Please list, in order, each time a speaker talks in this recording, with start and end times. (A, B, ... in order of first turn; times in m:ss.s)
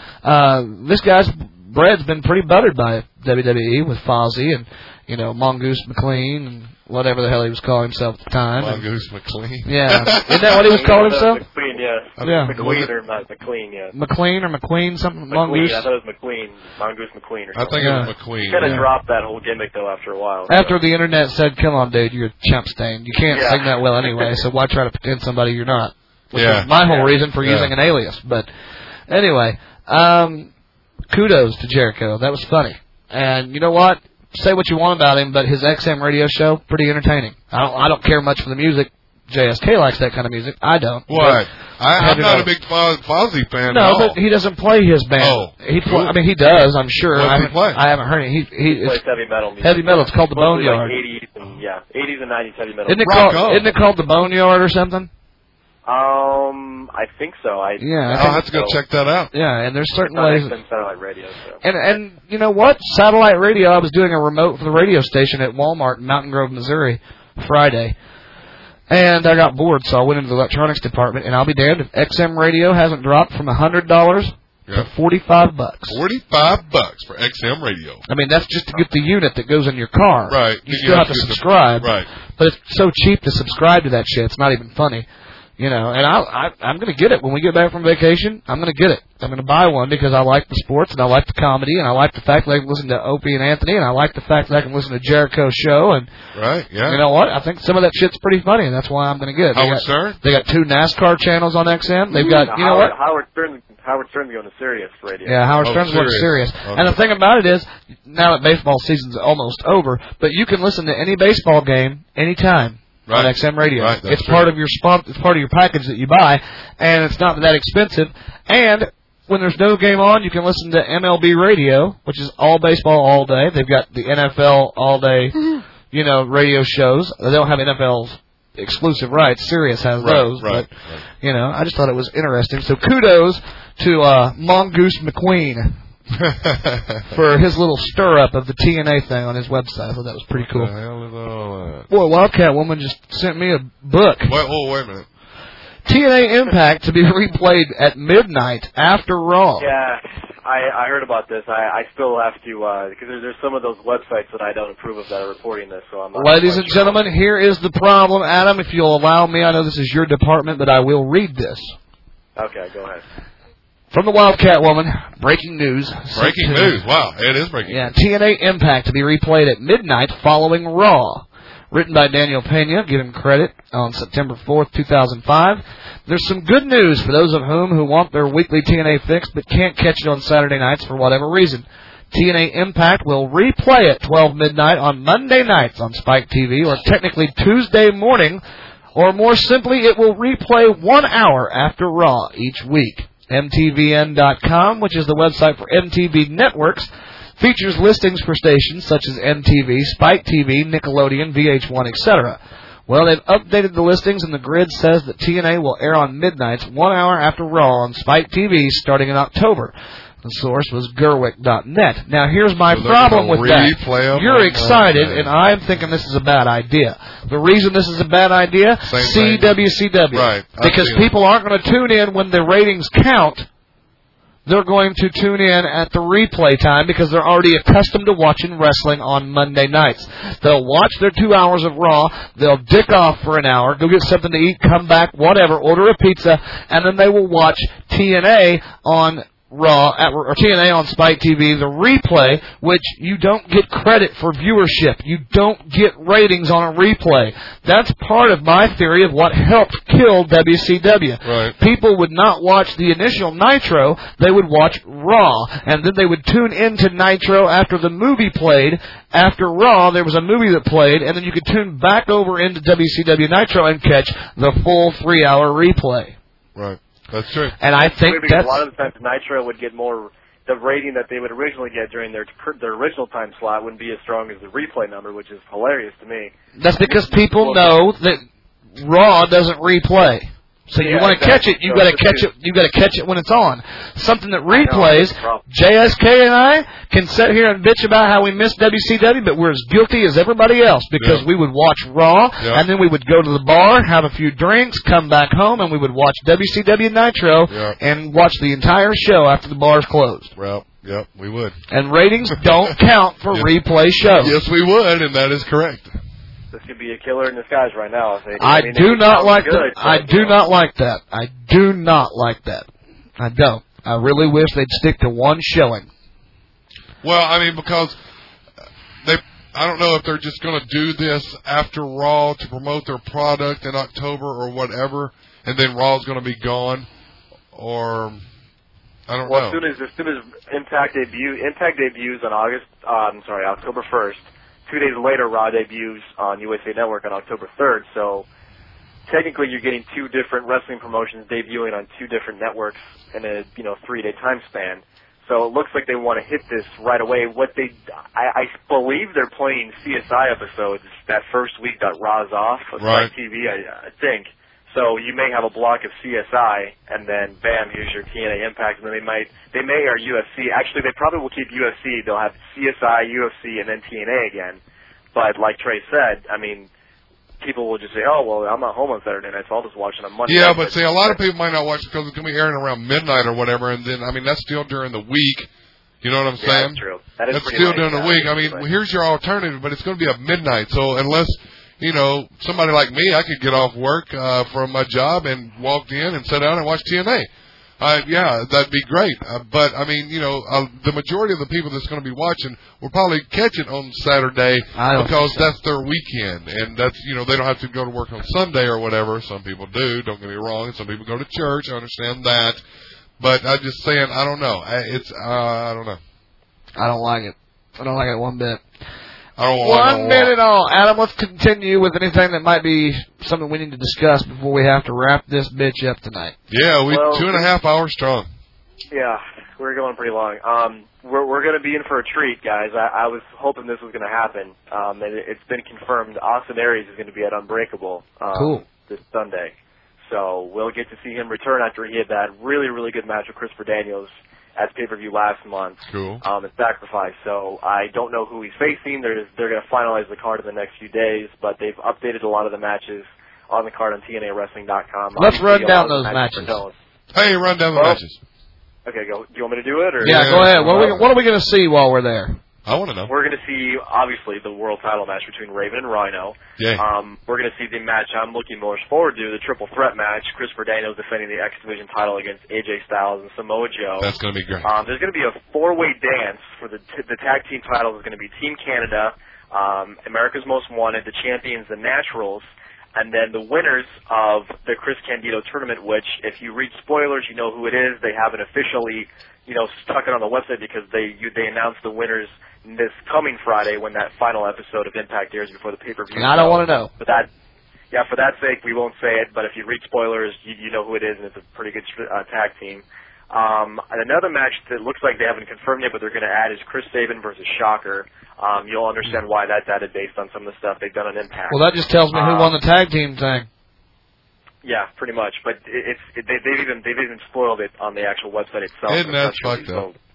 0:00.2-0:08.8 A
0:08.6-0:10.7 B
0:09.6-0:11.4 A
0:10.5-0:13.9 C
0:12.2-0:12.9 B
0:12.2-0:12.6 A
0:13.9-0:15.8 A
0:15.3-0:20.8 C
0:17.6-0:18.8 B
0:17.8-0:18.9 A
0:20.5-0:28.5 A
0:23.3-0:24.4 C
0:26.3-0:26.7 B
0:26.8-0:27.2 C
0:27.4-0:27.7 B
0:29.1-0:30.5 A
0:31.1-0:41.4 A
0:41.1-0:44.2 B
0:42.0-0:42.5 A
0:43.7-0:49.0 A
0:45.2-0:46.2 B
0:47.1-0:47.8 B
0:48.7-0:53.2 C
0:49.6-0:51.0 A
0:52.9-0:55.1 A
0:53.0-0:53.7 B
0:55.9-0:58.8 C
0:57.8-0:58.5 A
0:58.1-0:59.3 B
0:59.3-1:00.6 A
1:00.1-1:01.6 C
1:01.6-1:07.9 A
1:08.9-1:16.0 A
1:15.9-1:18.0 B
1:18.1-1:25.1 A
1:20.3-1:22.1 B
1:25.6-1:36.1 A
1:36.3-1:37.0 B
1:36.9-1:42.9 A
1:39.5-1:40.2 B
1:42.2-1:42.4 B
1:42.2-1:45.4 C
1:45.2-2:05.4 A
1:45.6-1:47.0 B
1:53.1-1:54.5 B
2:05.9-2:15.8 A
2:10.0-2:11.0 B
2:16.1-2:17.1 B
2:17.1-2:20.7 A
2:20.3-2:21.9 B
2:21.9-2:24.3 A
2:24.3-2:25.1 B
2:25.9-2:29.7 A
2:29.6-2:37.0 C
2:36.2-2:41.7 A
2:42.4-2:43.0 C
2:43.9-2:46.8 A
2:46.1-2:47.9 B
2:47.7-3:08.4 A
3:09.0-3:43.5 A
3:32.7-3:35.3 B
3:38.8-3:39.6 B
3:40.1-3:41.1 B
3:44.4-4:26.2 A
4:11.2-4:11.5 B
4:26.6-4:27.6 B
4:27.6-4:28.6 A
4:27.7-4:37.8 C
4:36.6-4:38.2 A
4:38.8-5:00.3 A
4:40.8-4:42.3 C
4:44.5-4:45.4 C
4:51.0-4:51.3 B
4:52.4-4:52.6 B
4:57.5-4:57.8 B
5:00.4-5:01.6 B
5:01.7-5:04.4 A
5:04.0-5:06.0 B
5:06.5-5:10.4 C
5:08.4-5:12.7 A
5:13.2-5:15.9 A
5:17.0-5:18.0 B
5:19.0-5:26.9 B
5:27.5-5:28.2 B
5:29.1-5:29.6 B
5:29.3-5:38.3 C
5:39.1-6:04.6 C
5:52.8-5:53.1 B
6:05.1-6:06.7 C
6:07.4-6:11.2 C
6:10.3-6:15.5 B
6:16.0-6:16.8 B
6:16.4-6:18.6 C
6:17.3-6:27.3 B
6:27.8-6:42.6 B
6:34.8-6:35.5 A
6:43.2-6:46.0 B
6:46.8-6:48.6 A
6:49.4-6:50.4 B
6:49.6-6:56.4 A
6:56.5-6:58.3 B
6:56.9-6:57.5 C
6:58.9-7:26.7 C
7:08.4-7:08.6 A
7:15.9-7:16.2 B
7:25.2-7:26.6 A
7:27.1-7:28.2 B
7:27.7-7:28.0 C
7:28.9-7:31.0 C
7:30.0-7:31.0 B
7:30.0-7:32.4 A
7:32.6-7:33.1 B
7:33.1-7:44.1 C
7:36.6-7:36.8 B
7:44.0-7:44.7 B
7:44.6-8:07.3 C
8:06.2-8:06.9 A
8:07.9-8:22.5 C
8:21.5-8:23.5 A
8:24.6-8:30.0 C
8:28.9-8:29.9 B